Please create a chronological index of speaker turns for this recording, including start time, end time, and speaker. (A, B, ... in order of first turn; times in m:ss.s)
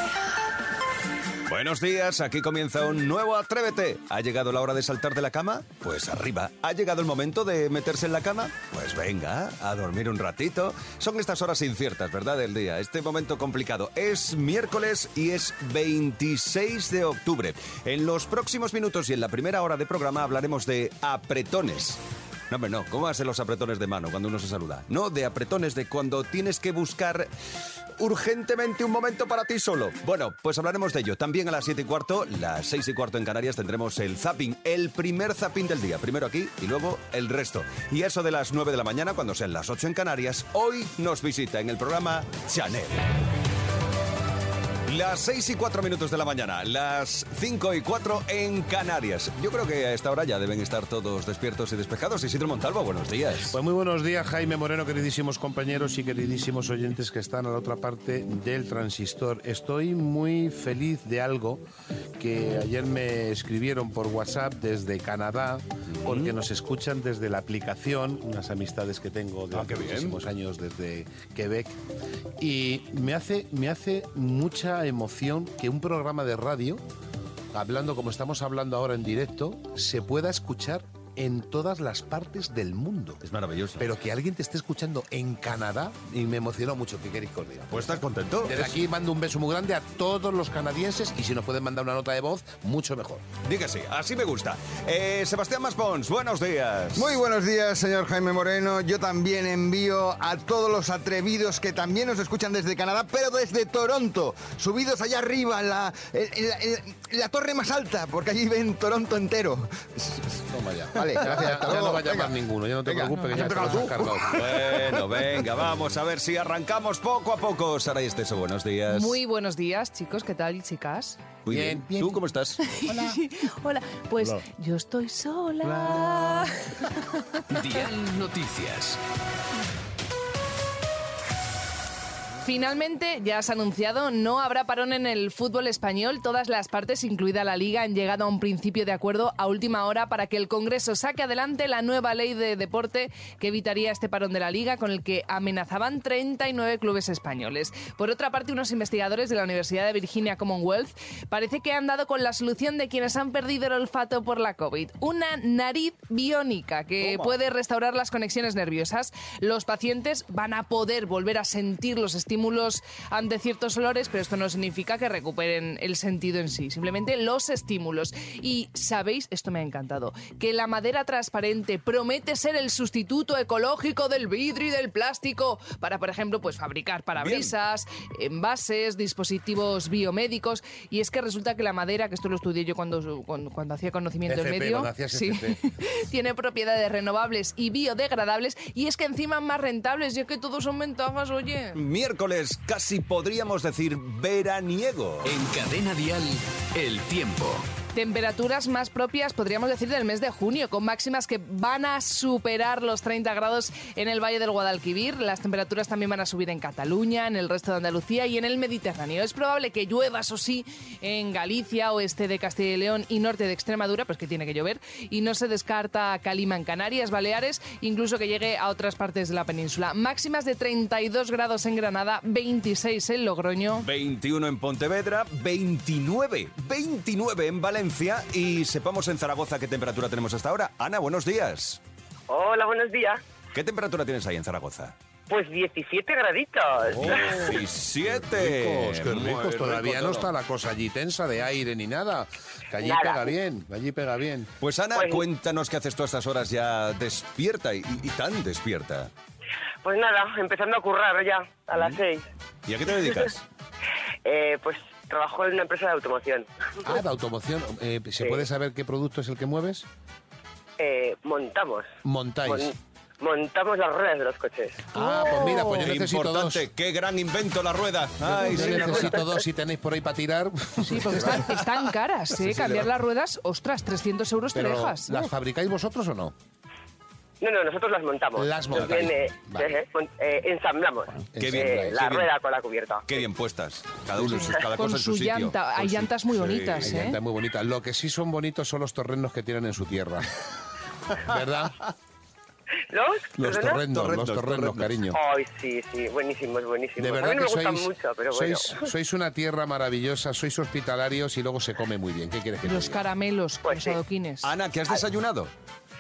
0:01.4-0:27.3 A
0:28.0-0:43.1 A
0:44.8-0:53.6 A
0:53.5-1:01.6 B
1:02.2-1:11.8 B
1:05.9-1:06.4 A
1:09.5-1:10.2 A
1:12.4-1:16.8 B
1:17.5-1:23.2 B
1:23.2-1:23.9 A
1:23.8-1:33.2 B
1:27.7-1:28.8 A
1:33.4-1:37.2 A
1:36.9-1:50.4 C
1:50.5-1:54.4 B
1:50.9-1:54.6 C
1:53.1-1:54.0 D
1:54.3-1:59.2 A
1:58.9-2:01.2 D
2:01.4-2:02.6 A
2:01.5-2:02.2 B
2:02.6-2:06.9 D
2:02.9-2:03.1 B
2:05.6-2:06.4 B
2:07.5-2:09.0 E
2:12.4-3:11.8 D
2:37.0-2:37.4 A
2:57.2-2:57.5 A
3:04.2-3:05.6 B
3:11.7-3:15.3 A
3:15.2-3:17.6 E
3:17.9-3:43.9 D
3:43.7-3:51.8 A
3:52.3-3:53.2 F
3:53.5-3:54.9 A
3:55.3-3:57.5 F
3:56.9-3:57.6 B
3:56.9-4:00.3 A
3:58.1-4:04.5 B
4:02.8-4:03.3 F
4:04.6-4:09.1 A
4:04.9-4:05.2 F
4:09.8-4:12.2 F
4:12.6-4:13.4 A
4:14.2-4:16.5 F
4:16.8-4:19.8 B
4:20.8-4:21.9 F
4:22.0-4:22.7 B
4:22.4-4:24.8 F
4:24.9-4:26.6 B
4:25.0-4:25.8 D
4:25.6-4:29.3 A
4:28.2-4:31.5 B
4:30.8-4:35.3 D
4:31.2-4:31.5 A
4:34.5-4:36.3 B
4:37.4-4:43.2 F
4:38.4-4:39.7 B
4:41.1-4:42.0 B
4:41.4-4:42.3 A
4:43.1-4:47.0 A
4:44.5-4:47.2 D
4:46.8-4:50.3 B
4:51.2-4:51.8 B
4:52.9-4:53.8 F
4:53.4-4:55.2 B
4:53.7-4:55.0 A
4:55.1-4:58.9 F
4:57.0-5:03.0 B
5:02.6-5:04.5 D
5:03.6-5:04.0 F
5:04.4-5:05.5 A